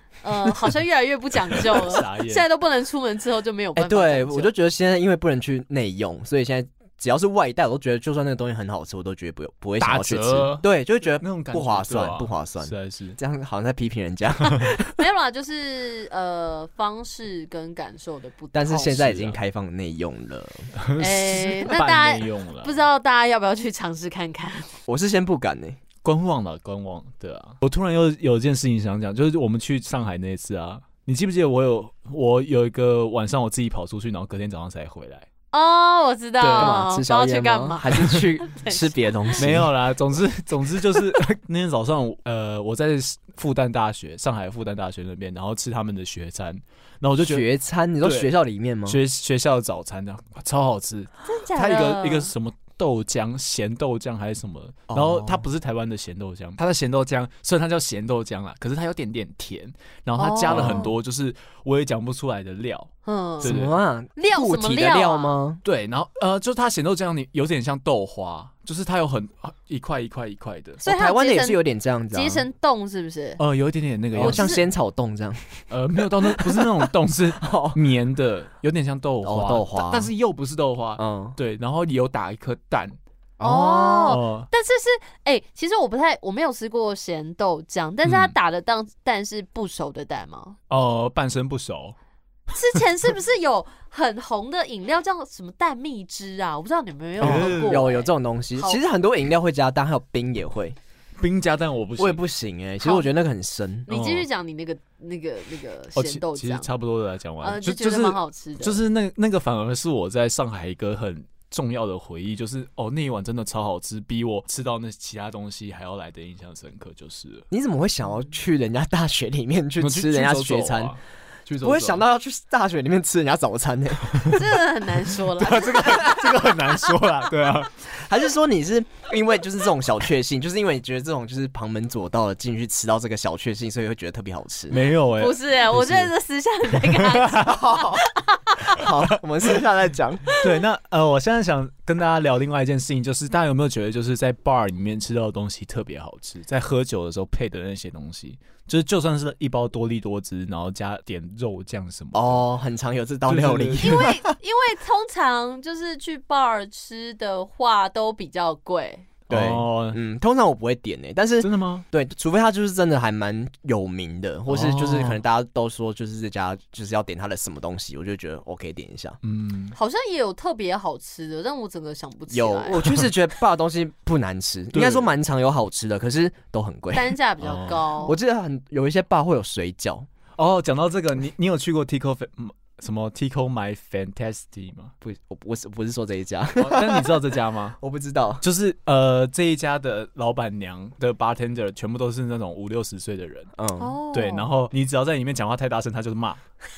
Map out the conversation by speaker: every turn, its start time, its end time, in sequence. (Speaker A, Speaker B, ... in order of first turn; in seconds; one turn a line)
Speaker A: 0.2-4.5
Speaker B: 1.6-2.5
Speaker C: 3.8-14.9
Speaker B: 9.8-10.7
Speaker B: 11.2-13.2
Speaker A: 15.0-19.0
Speaker C: 18.5-20.7
Speaker B: 18.9-19.4
Speaker B: 20.8-22.8
Speaker A: 21.0-24.8
Speaker C: 24.9-25.8
Speaker B: 26.0-35.3
Speaker A: 35.5-39.4
Speaker B: 36.4-36.8
Speaker C: 36.6-39.7
Speaker B: 39.4-47.5
Speaker C: 47.2-49.0
Speaker B: 48.0-48.3
Speaker B: 48.9-62.9
Speaker A: 51.2-52.3
Speaker C: 54.9-55.5
Speaker A: 60.2-61.0
Speaker C: 60.5-60.9
Speaker A: 63.1-63.5
Speaker B: 63.4-63.8
Speaker C: 63.4-65.6
Speaker A: 64.2-65.4
Speaker B: 65.6-70.8
Speaker A: 70.8-71.6
Speaker C: 70.8-72.5
Speaker A: 72.1-73.4
Speaker B: 73.4-74.6
Speaker C: 74.2-77.8
Speaker A: 74.2-74.6
Speaker B: 75.7-84.5
Speaker C: 79.2-80.1
Speaker C: 81.0-81.4
Speaker A: 83.4-90.6
Speaker B: 88.0-88.3
Speaker B: 90.7-92.0
Speaker A: 92.5-98.8
Speaker B: 97.2-97.9
Speaker C: 97.2-100.8
Speaker B: 101.2-102.2
Speaker C: 102.0-103.9
Speaker A: 102.8-103.1
Speaker A: 103.9-106.7
Speaker B: 103.9-104.3
Speaker B: 106.0-117.5
Speaker A: 107.4-108.8
Speaker C: 117.5-121.0
Speaker B: 119.8-122.0
Speaker C: 121.6-124.5
Speaker A: 124.3-126.9
Speaker B: 125.4-127.8
Speaker C: 125.9-126.2
Speaker C: 127.8-134.8
Speaker B: 134.7-136.1
Speaker A: 135.2-138.9
Speaker B: 136.7-137.5
Speaker C: 137.4-138.0
Speaker C: 138.7-140.3
Speaker A: 140.3-140.6
Speaker B: 140.3-152.4
Speaker C: 152.1-154.2
Speaker B: 153.3-154.1
Speaker A: 153.8-159.1
Speaker B: 159.3-160.0
Speaker C: 159.3-169.2
Speaker B: 161.4-161.8
Speaker B: 164.5-165.2
Speaker B: 169.2-169.8
Speaker A: 169.7-172.8
Speaker C: 172.3-177.2
Speaker B: 174.7-175.1
Speaker A: 176.9-178.2
Speaker B: 177.4-177.8
Speaker C: 178.0-180.1
Speaker B: 180.4-184.9
Speaker C: 185.0-187.2
Speaker B: 186.6-187.8
Speaker C: 187.8-188.4
Speaker B: 188.4-193.5
Speaker C: 193.6-194.0
Speaker A: 193.8-194.5
Speaker B: 194.1-196.4